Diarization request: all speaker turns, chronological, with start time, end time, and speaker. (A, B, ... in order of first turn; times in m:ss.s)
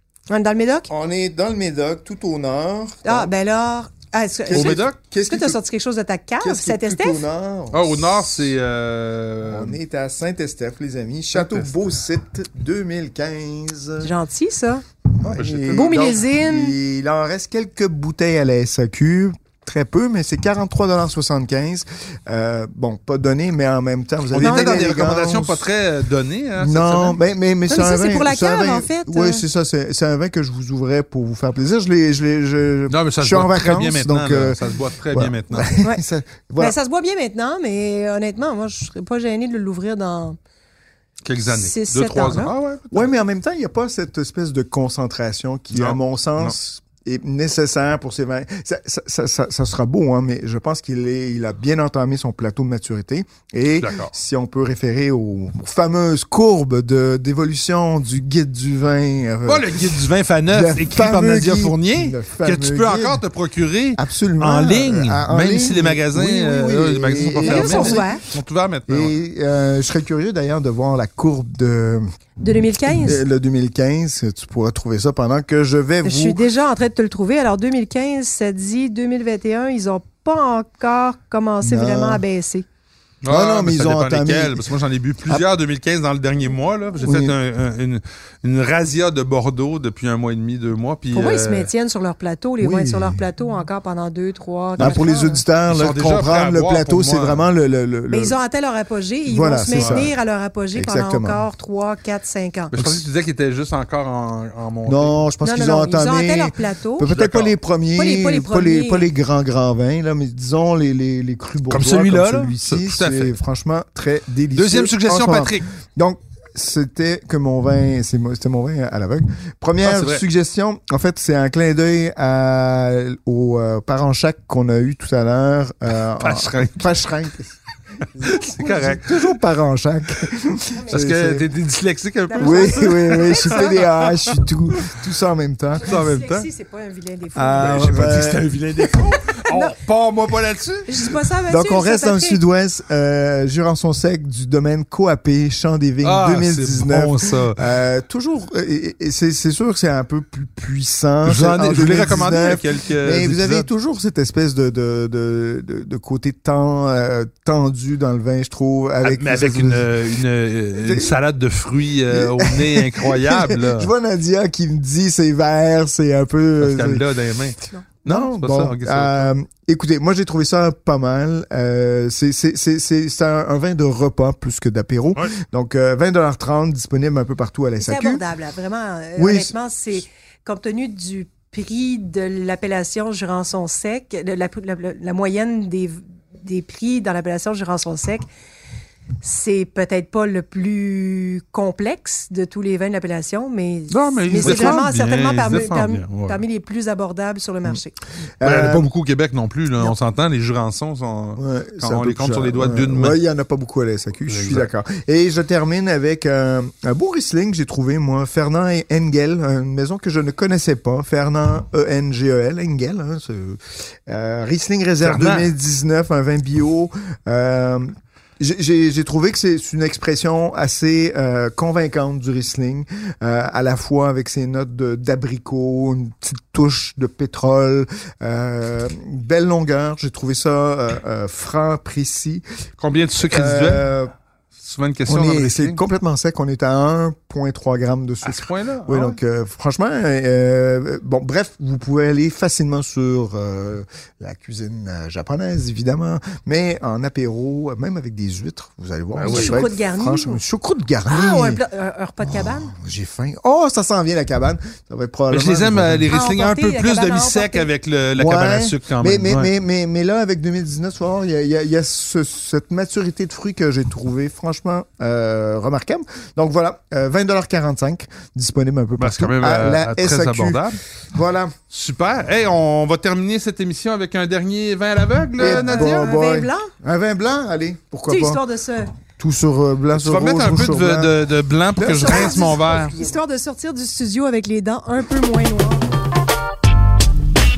0:00.3-0:00.9 A
0:00.9-0:03.3 B
0:03.0-0:07.2 A
0:04.5-0:05.6 B
0:04.5-0:05.0 C
0:06.4-0:08.4 B
0:07.7-0:09.8 C
0:09.4-0:14.1 B
0:11.3-0:11.7 C
0:14.0-0:14.8 A
0:15.2-0:25.6 B
0:15.2-0:16.2 C
0:15.7-0:16.8 A
0:24.3-0:27.2 C
0:24.4-0:24.9 A
0:26.6-0:36.8 B
0:27.7-0:29.4 A
0:32.9-0:35.7 C
0:36.6-0:40.4 A
0:41.2-0:43.1 C
0:41.5-0:42.5 A
0:42.9-1:03.2 B
0:45.7-0:46.5 C
0:53.8-0:54.1 C
0:59.4-1:09.1 C
1:04.0-1:08.1 B
1:07.4-1:08.2 A
1:08.9-1:12.0 B
1:12.4-1:13.2 A
1:12.9-1:16.4 B
1:16.0-1:22.6 A
1:21.6-1:22.2 B
1:23.2-1:31.7 C
1:23.3-1:24.6 B
1:27.0-1:27.3 B
1:31.1-1:35.4 A
1:32.6-1:33.2 B
1:34.8-1:38.4 B
1:35.7-1:37.4 C
1:38.1-1:42.7 A
1:39.2-1:40.1 B
1:39.7-1:40.1 C
1:40.7-1:41.4 B
1:42.7-1:45.2 C
1:42.7-1:43.0 B
1:44.8-2:07.5 B
1:45.4-1:47.1 A
1:47.1-1:47.6 C
1:48.0-1:49.1 A
1:51.7-1:53.3 C
1:54.5-1:55.7 C
1:59.8-2:00.2 C
2:06.2-2:06.9 C
2:08.1-2:11.5 B
2:08.2-2:09.3 C
2:10.7-2:11.1 A
2:10.9-2:14.8 C
2:12.3-2:13.8 A
2:12.4-2:16.0 B
2:15.8-2:18.1 A
2:15.8-2:16.5 C
2:17.3-2:18.5 B
2:17.6-2:21.1 C
2:19.4-2:19.7 A
2:20.9-2:22.4 A
2:21.5-2:40.0 B
2:26.0-2:27.6 C
2:31.2-2:33.7 C
2:39.0-2:43.9 C
2:40.8-2:41.1 B
2:42.1-2:47.1 B
2:46.6-2:49.3 C
2:48.0-2:58.2 B
2:57.8-3:08.2 A
2:59.2-2:59.5 B
3:09.2-3:17.9 A
3:13.9-3:16.4 C
3:14.4-3:14.8 B
3:18.4-3:18.9 B
3:18.4-3:23.2 C
3:21.4-3:52.4 B
3:24.3-3:24.7 C
3:35.0-3:35.5 C
3:52.8-3:53.8 C
3:53.3-3:54.1 B
3:54.6-3:55.8 C
3:55.1-4:11.6 B
3:58.2-3:59.2 C
4:09.1-4:09.6 C
4:09.3-4:10.4 A
4:11.1-4:12.7 A
4:12.5-4:16.1 B
4:15.3-4:19.5 C
4:16.1-4:17.7 A
4:18.2-4:31.5 B
4:29.0-4:30.8 C
4:31.7-4:36.1 C
4:35.4-4:38.4 B
4:35.4-4:36.7 A
4:38.1-4:38.9 A
4:39.2-4:41.2 B
4:39.9-4:42.9 C
4:41.8-4:42.8 B
4:41.8-4:45.8 A